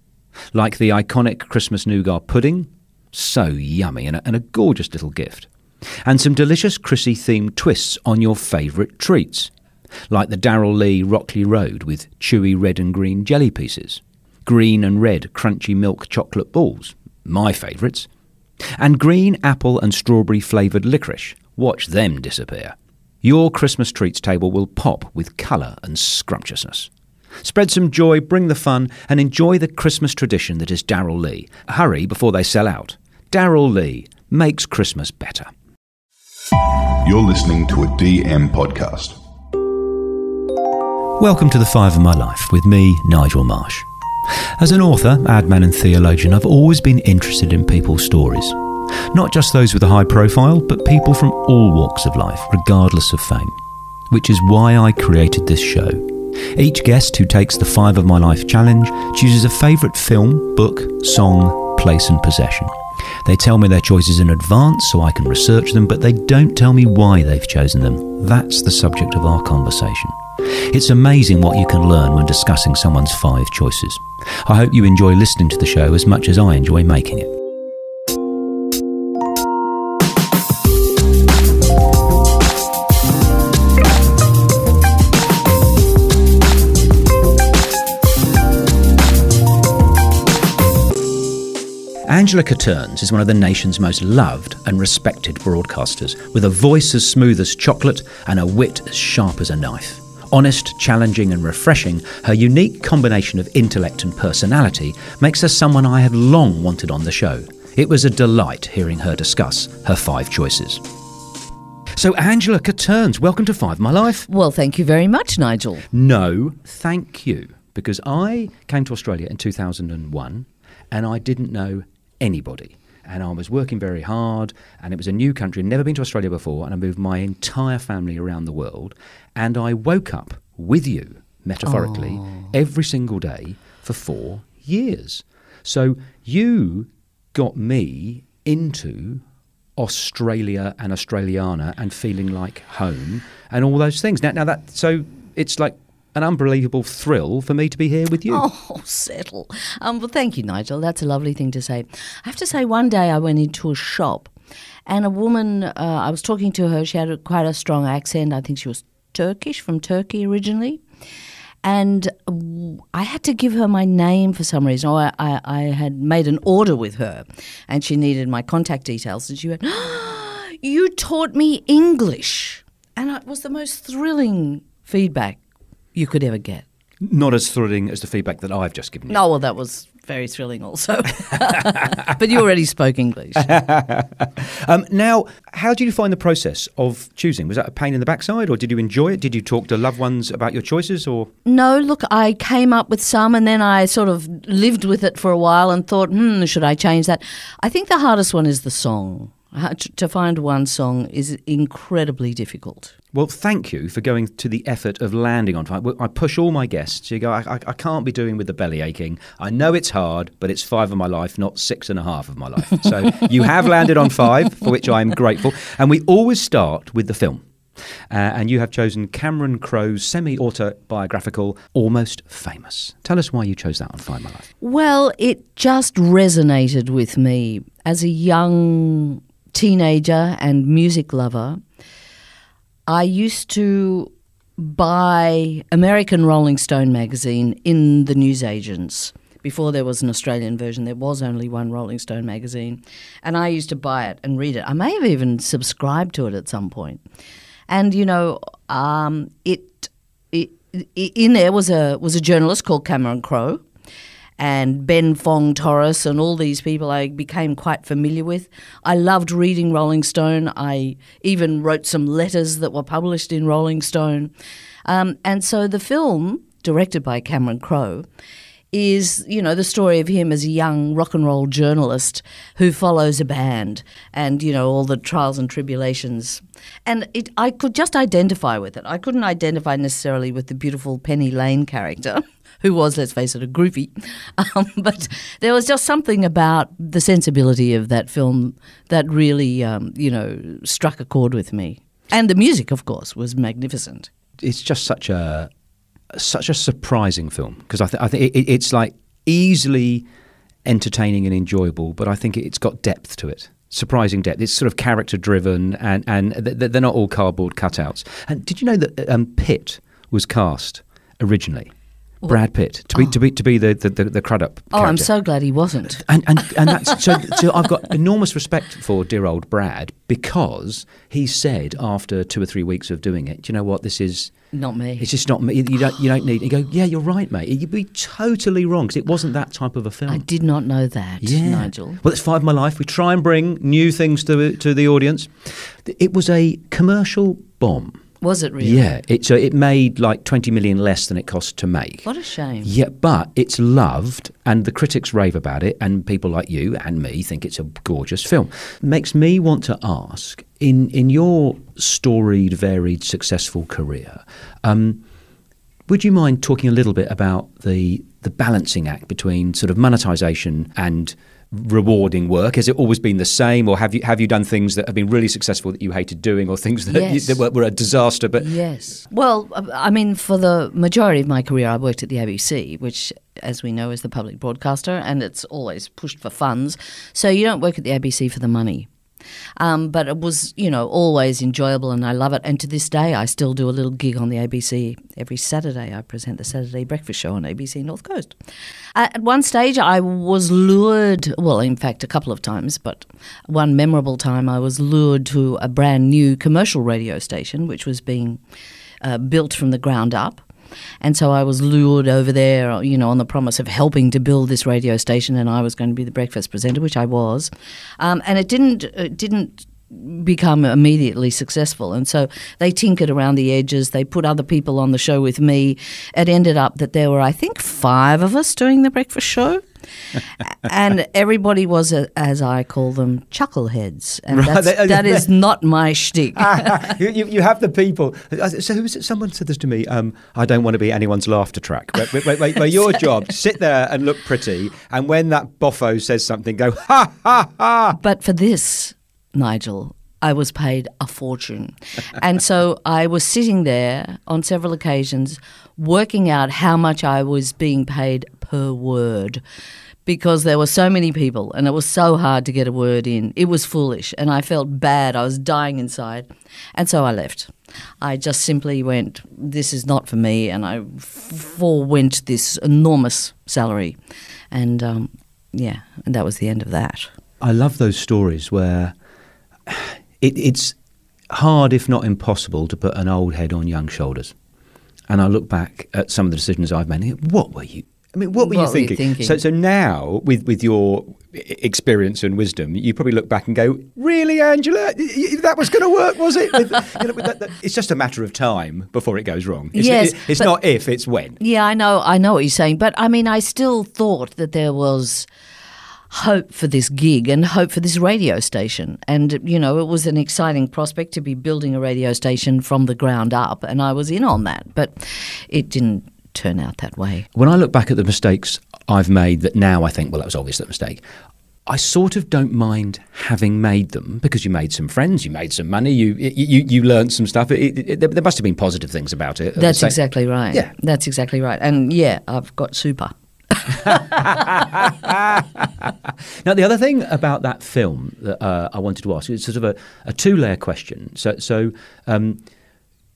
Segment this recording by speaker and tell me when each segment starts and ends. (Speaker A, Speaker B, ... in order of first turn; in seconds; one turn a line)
Speaker A: 0.5-5.5
Speaker A: 6.0-9.5
Speaker A: 10.1-18.1
Speaker A: 18.8-26.9
Speaker A: 27.4-35.5
Speaker B: 37.0-39.2
Speaker A: 41.2-43.9
Speaker A: 44.6-48.6
Speaker A: 49.1-53.6
Speaker A: 54.1-62.7
Speaker A: 63.2-70.2
Speaker A: 70.7-77.3
Speaker A: 92.1-110.8
Speaker A: 112.0-114.3
Speaker C: 114.3-115.9
Speaker A: 115.9-139.2
Speaker C: 131.7-132.5
Speaker A: 139.8-148.4
Speaker C: 148.3-154.3
Speaker C: 154.9-160.8
Speaker C: 161.6-175.4
Speaker C: 175.9-176.7
Speaker A: 177.0-179.2
Speaker C: 179.1-183.5
Speaker A: 183.4-191.3
Speaker C: 191.5-202.9
Speaker A: 203.1-217.4
Speaker A: 218.1-224.5
Speaker C: 224.6-231.6
Speaker C: 232.9-247.0
Speaker C: 247.7-253.6
Speaker C: 254.4-264.3
Speaker C: 264.9-268.1
Speaker C: 268.7-294.1
Speaker A: 294.4-295.5
Speaker A: 296.1-300.1
Speaker A: 300.6-311.7
Speaker A: 312.3-315.1
Speaker C: 314.7-316.1
Speaker A: 316.0-324.3
Speaker C: 316.6-317.0
Speaker C: 324.5-325.1
Speaker A: 325.0-330.3
Speaker C: 330.1-332.0
Speaker A: 331.2-335.3
Speaker A: 335.9-338.0
Speaker C: 338.2-338.9
Speaker A: 338.6-342.1
Speaker C: 342.1-342.7
Speaker A: 342.6-355.0
Speaker A: 355.9-368.5
Speaker C: 366.9-367.4
Speaker C: 368.4-378.9
Speaker C: 379.6-388.3
Speaker C: 388.9-398.4
Speaker C: 399.0-400.4
Speaker C: 401.0-419.6
Speaker C: 420.4-426.9
Speaker A: 424.3-425.3
Speaker A: 426.4-438.0
Speaker C: 438.0-449.4
Speaker C: 450.1-464.0
Speaker C: 464.5-467.1
Speaker A: 467.4-468.9
Speaker A: 469.7-470.8
Speaker A: 471.3-474.3
Speaker A: 475.1-491.4
Speaker C: 478.3-479.4
Speaker C: 489.7-490.5
Speaker C: 491.4-495.3
Speaker C: 496.1-507.3
Speaker A: 507.4-511.0
Speaker A: 511.7-520.0
Speaker C: 519.6-524.2
Speaker A: 523.8-532.4